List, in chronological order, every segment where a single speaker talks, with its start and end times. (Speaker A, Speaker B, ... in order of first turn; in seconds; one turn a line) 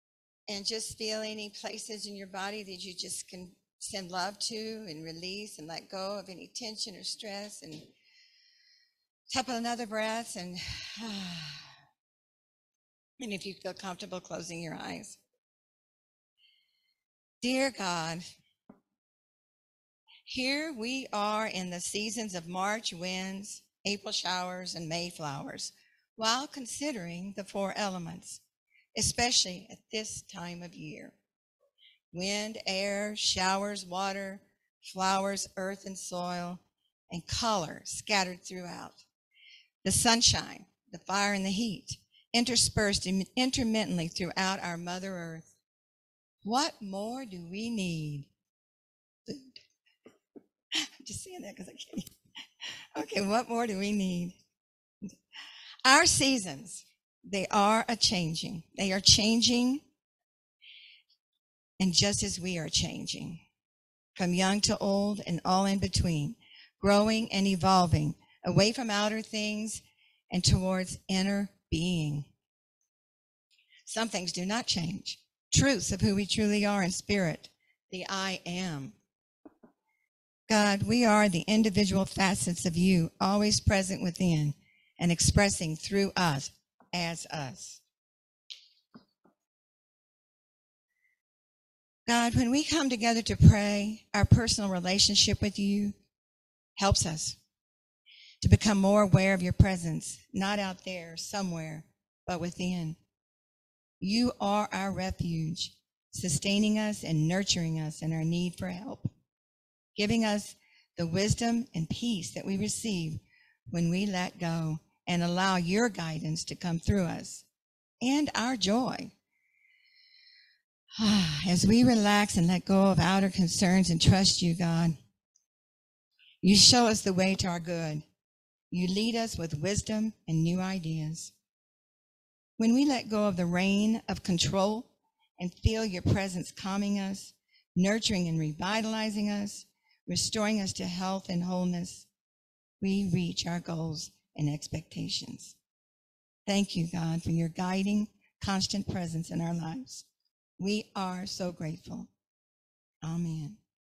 Speaker A: 0.5-7.9
Speaker A: 9.3-11.7
Speaker A: 13.2-15.2
Speaker A: 17.4-18.2
Speaker A: 20.2-28.4
Speaker A: 28.9-31.1
Speaker A: 32.1-39.0
Speaker A: 39.8-45.5
Speaker A: 46.4-48.3
Speaker A: 49.3-49.6
Speaker A: 51.0-52.1
Speaker A: 52.9-54.4
Speaker A: 55.8-59.8
Speaker A: 61.8-63.4
Speaker A: 64.1-72.3
Speaker A: 73.8-79.0
Speaker A: 80.5-87.8
Speaker A: 92.1-95.9
Speaker A: 96.8-97.4
Speaker A: 98.4-103.0
Speaker A: 104.0-109.1
Speaker A: 109.9-117.5
Speaker A: 118.0-119.1
Speaker A: 121.0-125.0
Speaker A: 126.4-128.0
Speaker A: 128.7-131.3
Speaker A: 132.6-142.1
Speaker A: 142.8-145.6
Speaker A: 146.5-150.1
Speaker A: 150.6-152.1
Speaker A: 153.0-153.6